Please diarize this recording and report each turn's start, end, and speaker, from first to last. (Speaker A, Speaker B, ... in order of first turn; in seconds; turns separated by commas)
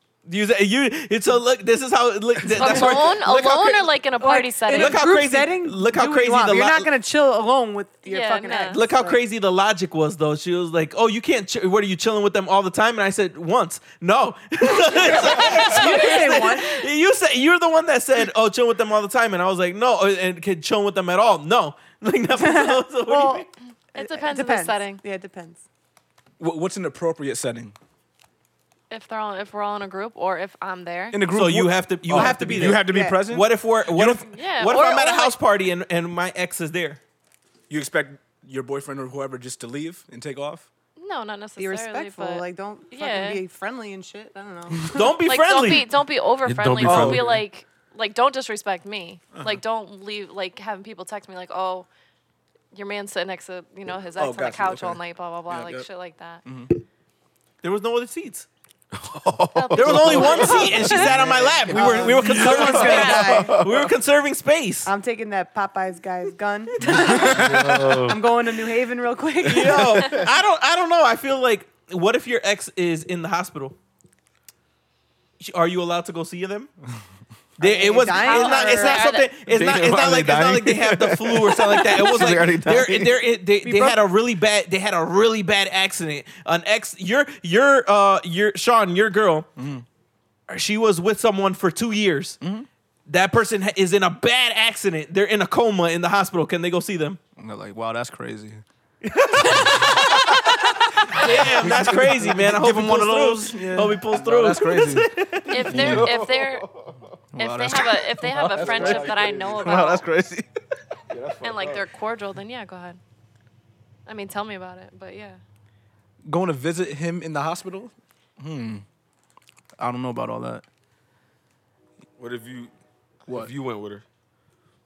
Speaker A: 0.2-3.9, Speaker B: 2.5-5.1, Speaker C: 4.2-9.2, Speaker A: 4.7-6.9, Speaker B: 8.0-8.8, Speaker A: 8.7-23.5, Speaker C: 14.9-16.8, Speaker B: 15.7-16.2, Speaker C: 22.4-25.6, Speaker B: 23.9-25.0, Speaker D: 26.4-27.7, Speaker B: 28.9-31.3, Speaker D: 31.1-34.2, Speaker A: 31.3-37.0, Speaker C: 32.2-33.2, Speaker B: 34.2-35.4, Speaker D: 37.7-40.7, Speaker B: 41.0-43.4, Speaker C: 41.6-45.2, Speaker A: 44.9-45.9, Speaker B: 45.2-51.9, Speaker E: 46.4-47.4, Speaker D: 46.8-47.4, Speaker B: 52.7-56.4, Speaker D: 54.1-55.9, Speaker D: 56.4-56.8, Speaker A: 57.6-58.5, Speaker E: 58.9-60.8, Speaker B: 59.5-61.1, Speaker A: 59.7-64.9, Speaker D: 60.6-62.7, Speaker C: 61.7-63.6, Speaker E: 62.3-63.9, Speaker B: 62.5-63.5, Speaker C: 64.8-70.1, Speaker E: 66.9-68.2, Speaker D: 67.1-67.5, Speaker A: 69.4-73.8, Speaker A: 75.4-76.7, Speaker A: 77.6-89.5, Speaker C: 77.6-79.1, Speaker B: 78.1-79.3, Speaker E: 79.5-83.2, Speaker C: 83.6-84.0, Speaker D: 89.6-89.8, Speaker A: 90.5-92.4, Speaker D: 92.4-92.7, Speaker A: 93.1-97.2, Speaker D: 97.4-98.6, Speaker A: 99.0-100.4, Speaker D: 99.5-100.2, Speaker D: 101.0-105.1, Speaker A: 101.1-105.8, Speaker B: 105.5-106.6, Speaker D: 105.6-106.1, Speaker E: 105.6-107.2, Speaker D: 107.3-110.5, Speaker B: 107.4-110.1, Speaker E: 108.3-109.9, Speaker E: 111.1-111.8, Speaker B: 111.4-113.0, Speaker B: 114.0-115.4, Speaker D: 116.2-118.8, Speaker D: 119.8-120.6, Speaker E: 122.2-122.7, Speaker E: 123.3-124.0